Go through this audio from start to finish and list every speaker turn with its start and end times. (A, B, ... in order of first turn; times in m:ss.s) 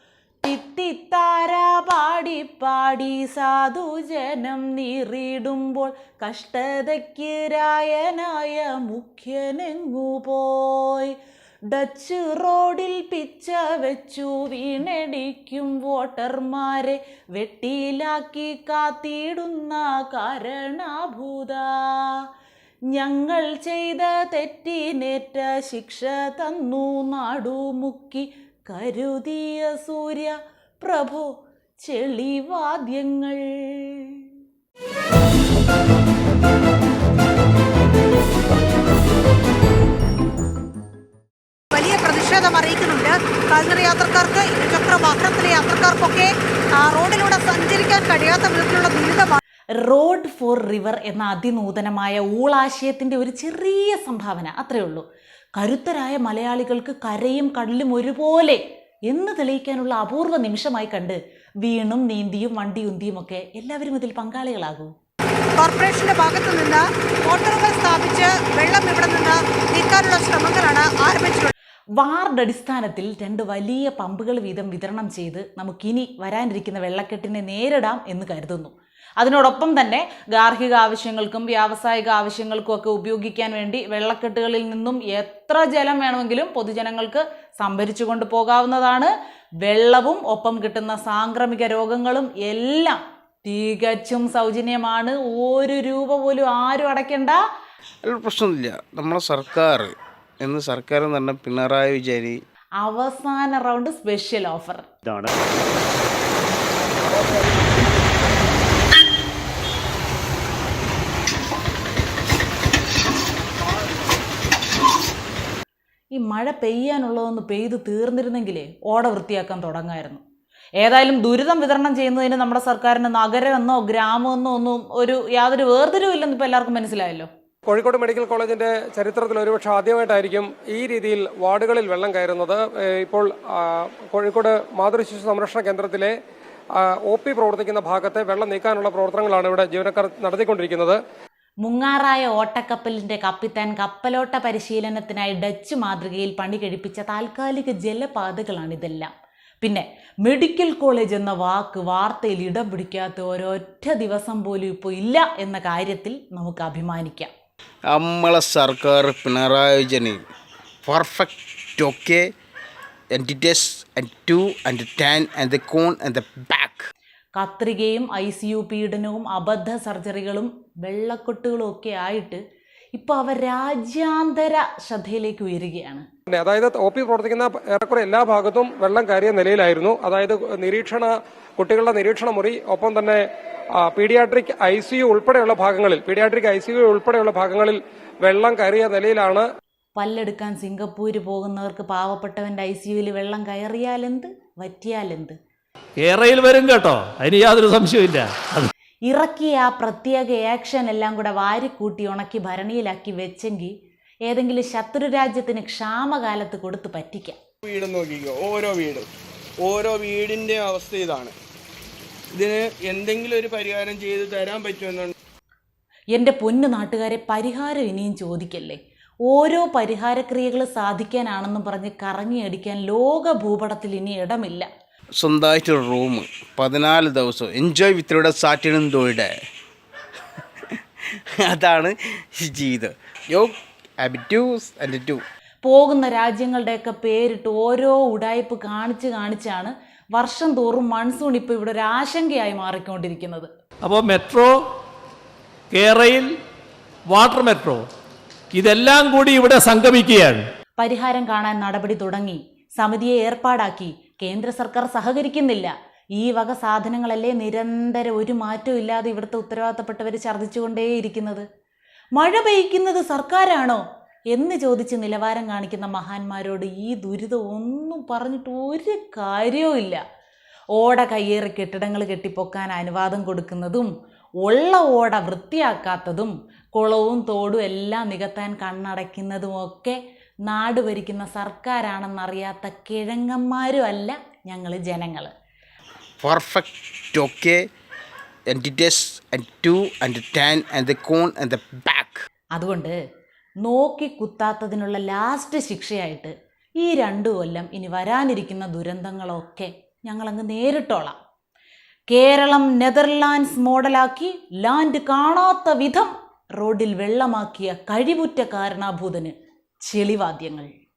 0:00.4-0:11.2 A
0:11.7-0:22.3 A
0:22.9-0:31.3 A
0:31.8-0:34.3 A
0:41.7-0:49.4 B
0:49.8-0:55.0 A
0:55.6-1:04.9 A
1:05.6-1:11.5 B
1:12.0-1:37.4 A
1:38.0-1:42.4 C
1:42.8-1:44.9 A
1:56.1-2:00.2 A
2:00.8-2:07.3 A
2:07.7-2:16.1 D
2:16.8-2:21.0 D
2:21.6-2:29.1 A
2:29.6-2:37.3 A
2:37.9-2:40.2 C
2:40.8-2:42.3 C
2:43.1-2:46.9 C
2:47.3-2:52.4 A
2:52.9-2:56.0 A
2:56.3-3:03.2 D
3:03.8-3:09.4 D
3:10.0-3:15.4 A
3:16.0-3:18.7 E
3:19.1-3:23.7 A
3:24.3-3:27.4 A
3:27.6-3:29.1 F
3:29.6-3:31.3 F
3:32.3-3:35.1 F
3:36.1-3:44.7 A
3:45.2-3:49.3 C
3:50.6-3:55.2 C
3:55.6-4:03.5 A
4:03.8-4:04.5 E
4:05.7-4:06.3 E
4:07.1-4:07.8 E
4:08.5-4:10.4 E
4:10.8-4:21.4 A
4:22.1-4:30.0 A
4:30.8-4:33.9 A
4:34.4-4:45.3 A
4:46.2-4:47.6 C
4:48.5-4:52.2 C
4:52.5-4:53.0 A
4:53.6-5:01.2 A
5:02.1-5:10.7 A